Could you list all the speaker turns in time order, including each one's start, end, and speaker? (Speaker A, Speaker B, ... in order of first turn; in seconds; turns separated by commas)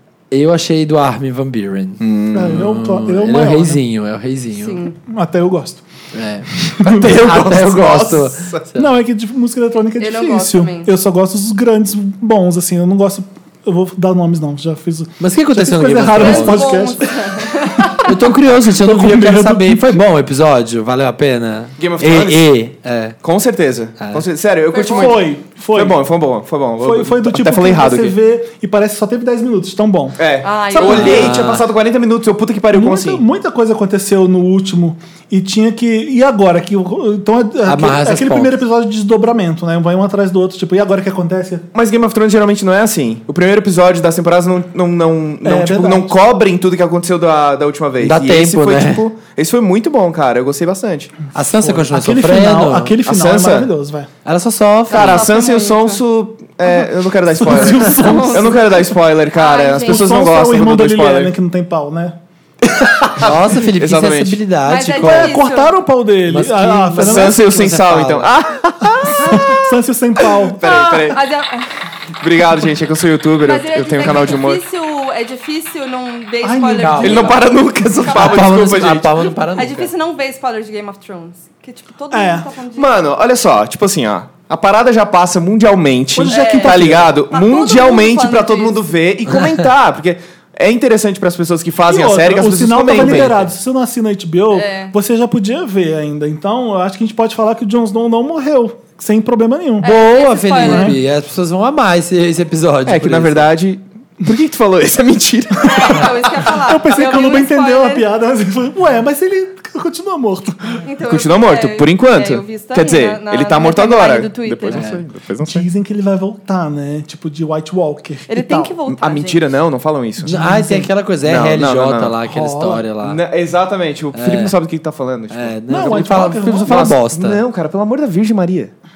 Speaker A: 0.3-4.9, Speaker B: 2.0-2.7, Speaker C: 2.3-3.8, Speaker D: 4.6-5.0, Speaker C: 5.1-5.8, Speaker A: 6.1-9.0, Speaker C: 6.6-7.8, Speaker B: 7.0-8.6, Speaker C: 8.8-20.0, Speaker D: 10.0-10.9, Speaker A: 15.2-16.8, Speaker D: 16.2-18.1, Speaker A: 18.0-23.2, Speaker B: 21.8-22.5, Speaker B: 23.2-28.2, Speaker A: 24.0-24.3, Speaker D: 24.7-25.3, Speaker C: 24.9-26.0, Speaker C: 26.8-31.5, Speaker B: 30.2-33.2, Speaker D: 30.4-31.4, Speaker A: 30.9-31.7, Speaker C: 32.7-41.7, Speaker A: 37.6-38.6, Speaker B: 41.7-51.1, Speaker C: 45.4-46.1, Speaker A: 48.0-49.0, Speaker A: 51.3-53.0, Speaker C: 51.6-54.1, Speaker B: 53.1-53.7, Speaker A: 54.2-55.2, Speaker D: 54.9-56.0, Speaker B: 54.9-61.4, Speaker C: 57.3-58.8, Speaker D: 57.5-58.8, Speaker D: 59.3-60.2, Speaker C: 59.9-62.2, Speaker B: 62.6-64.4, Speaker A: 63.2-65.4, Speaker D: 64.7-65.8, Speaker C: 65.0-67.7, Speaker A: 66.3-68.3, Speaker B: 67.0-69.6, Speaker C: 69.1-70.7, Speaker B: 70.4-71.3, Speaker D: 70.6-71.7, Speaker B: 72.2-74.6, Speaker D: 73.4-77.5, Speaker C: 76.4-77.2, Speaker A: 76.8-77.5, Speaker B: 77.0-79.1, Speaker D: 78.0-78.5, Speaker A: 78.1-79.9, Speaker D: 79.6-83.0, Speaker C: 82.1-82.5, Speaker B: 82.7-93.4, Speaker C: 86.2-87.1, Speaker D: 86.3-88.8, Speaker C: 91.9-99.9, Speaker A: 92.9-93.4, Speaker D: 94.5-94.9, Speaker D: 99.8-101.0, Speaker A: 99.8-103.5, Speaker C: 100.6-101.0, Speaker B: 102.9-106.2, Speaker D: 105.7-108.1, Speaker C: 105.9-110.8, Speaker D: 110.8-114.8, Speaker B: 111.0-115.7, Speaker A: 114.7-115.0, Speaker C: 115.4-118.8, Speaker D: 118.3-119.5, Speaker B: 118.9-120.4, Speaker A: 120.2-123.2, Speaker C: 120.3-120.9, Speaker B: 121.2-122.2, Speaker C: 122.3-122.8, Speaker B: 123.0-125.6, Speaker A: 124.1-124.6, Speaker A: 125.3-127.4, Speaker C: 125.7-127.0, Speaker B: 126.6-128.7